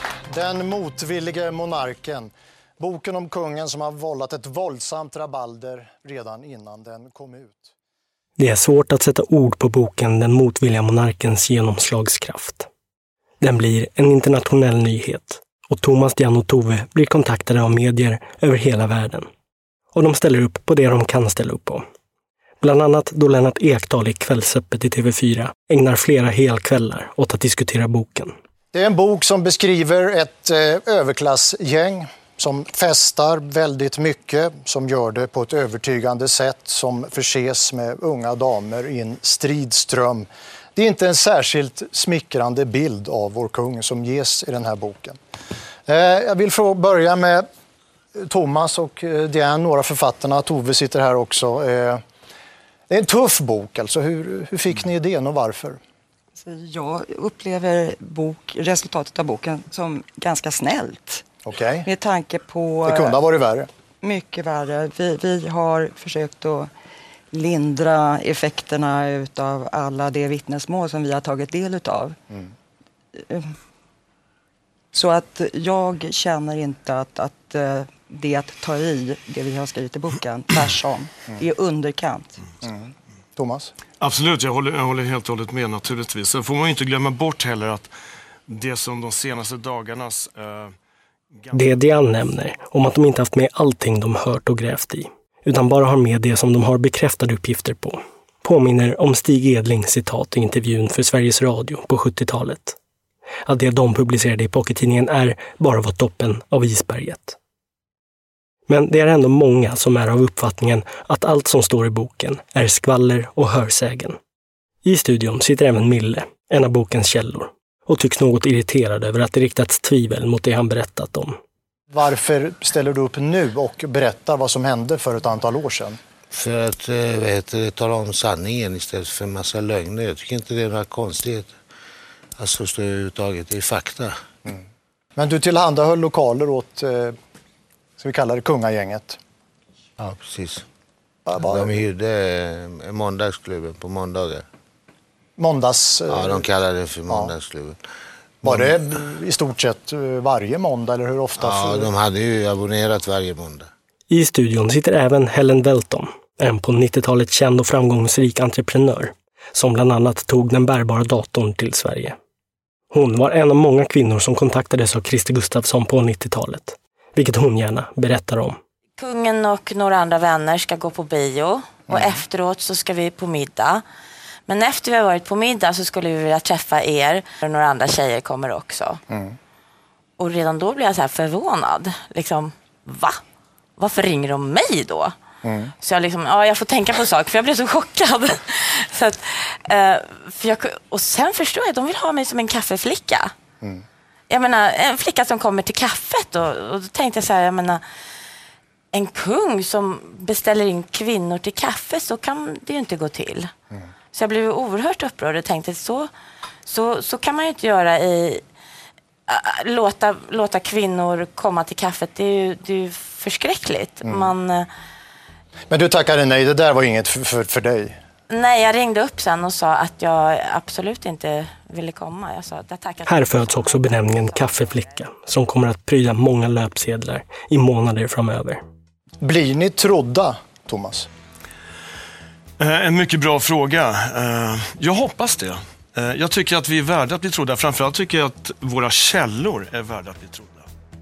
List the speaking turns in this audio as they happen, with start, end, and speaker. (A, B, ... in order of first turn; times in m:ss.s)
0:00.3-0:07.7 A
0:08.4-0:12.7 B
0:13.4-0:19.3 B
0:20.0-0:21.8 B
0:22.6-0:28.3 B
0:28.7-0:45.2 A
0:45.9-0:47.5 A
0:48.2-0:52.0 A
0:52.9-0:55.8 A
0:56.4-1:01.3 C
1:01.4-1:01.9 A
1:01.8-1:03.2 C
1:02.9-1:03.7 A
1:04.0-1:06.7 C
1:07.3-1:12.2 C
1:13.2-1:13.6 C
1:14.9-1:22.4 C
1:22.6-1:23.7 A
1:24.0-1:27.9 D
1:28.5-1:30.7 D
1:31.4-1:31.7 D
1:31.5-1:42.8 B
1:43.4-1:47.4 B
1:48.7-1:54.2 B
1:54.8-2:01.4 B
2:01.9-2:06.0 A
2:06.3-2:11.6 E
2:12.4-2:14.2 E
2:15.2-2:17.2 A
2:18.0-2:19.2 A
2:20.0-2:20.6 E
2:21.3-2:21.8 A
2:21.5-2:24.4 E
2:25.4-2:26.4 A
2:26.1-2:27.8 E
2:27.1-2:27.3 A
2:28.4-2:28.7 E
2:28.4-2:31.9 A
2:31.4-2:33.7 E
2:34.1-2:42.2 B
2:42.9-2:48.6 B
2:49.0-2:53.8 F
2:51.9-2:52.2 A
2:54.5-2:59.0 F
2:59.1-2:59.4 A
3:00.2-3:03.2 F
3:03.8-3:05.1 F
3:05.4-3:05.7 A
3:05.8-3:13.3 F
3:14.3-3:17.8 F
3:18.9-3:23.5 F
3:24.1-3:26.1 F
3:26.6-3:28.4 F
3:29.3-3:34.7 F
3:34.0-3:34.3 A
3:35.7-3:38.0 A
3:38.3-3:45.0 F
3:43.0-3:48.6 B
3:49.2-3:51.1 A
3:52.6-4:00.6 D